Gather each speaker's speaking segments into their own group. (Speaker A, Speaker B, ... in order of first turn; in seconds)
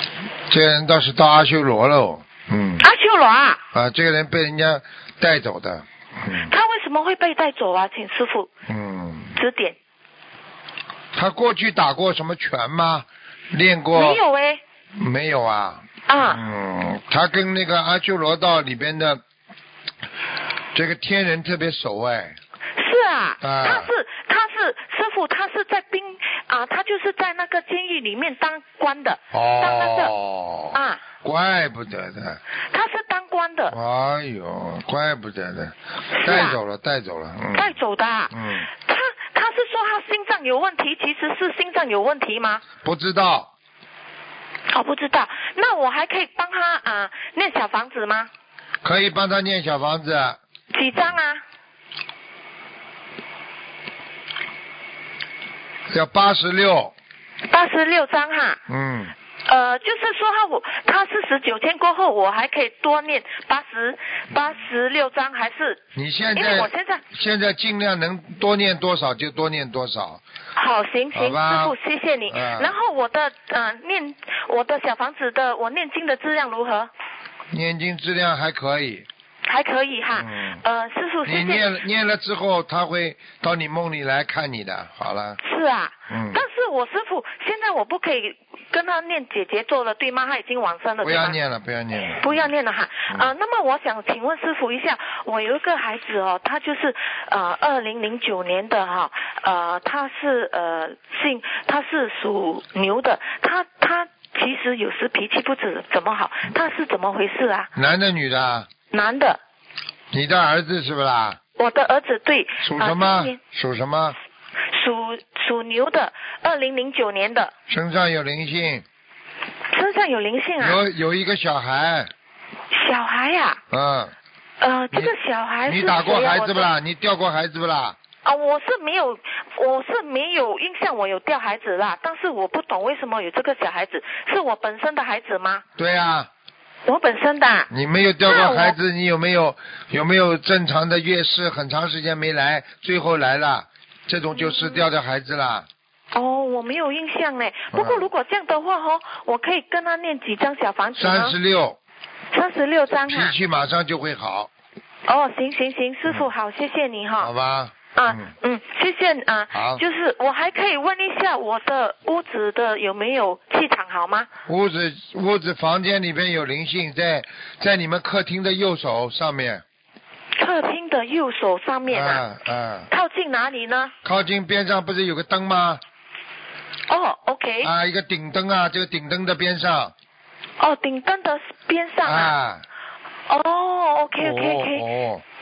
Speaker A: 0.5-2.9, 3.7-6.5, 8.7-9.3, 11.1-14.2, 14.9-19.2, 20.7-22.4, 23.4-23.9, 29.3-32.4, 33.7-37.7, 38.3-38.7, 42.8-43.5, 48.8-50.4, 55.9-56.9, 58.7-59.1, 65.9-70.2, 71.1-71.7, 72.3-72.7, 77.5-79.1, 80.1-80.6, 81.2-85.4, 86.1-86.4, 91.0-92.5, 107.7-108.7, 110.1-111.4, 112.6-114.2, 117.7-118.8, 120.6-122.1, 123.7-124.1, 125.7-128.0, 135.8-136.3, 137.7-145.7, 147.7-148.1, 151.0-151.8, 153.1-154.5, 157.2-158.3, 159.5-159.8, 164.5-169.6, 171.9-172.9, 174.0-175.8, 177.6-179.9, 182.0-182.6, 184.2-185.2
Speaker B: 2.8-3.6, 6.3-8.5, 9.3-9.8, 13.9-14.6, 16.1-16.4, 22.8-30.1, 30.7-31.0, 32.7-33.7, 36.1-36.6, 37.5-42.6, 44.7-48.3, 50.7-51.4, 57.5-58.6, 59.5-65.8, 66.3-67.0, 70.5-76.9, 79.5-81.7, 85.4-91.3, 92.2-107.7, 108.9-109.4, 111.6-113.4, 114.7-117.5, 119.7-120.8, 122.7-123.6, 124.6-126.7, 128.2-135.6, 136.8-137.7, 138.2-138.8, 144.4-144.8, 146.1-151.3, 152.3-153.3, 155.1-157.3, 157.9-164.3, 170.4-172.2, 172.9-173.9, 176.9-177.7, 180.6-182.3, 183.3-184.8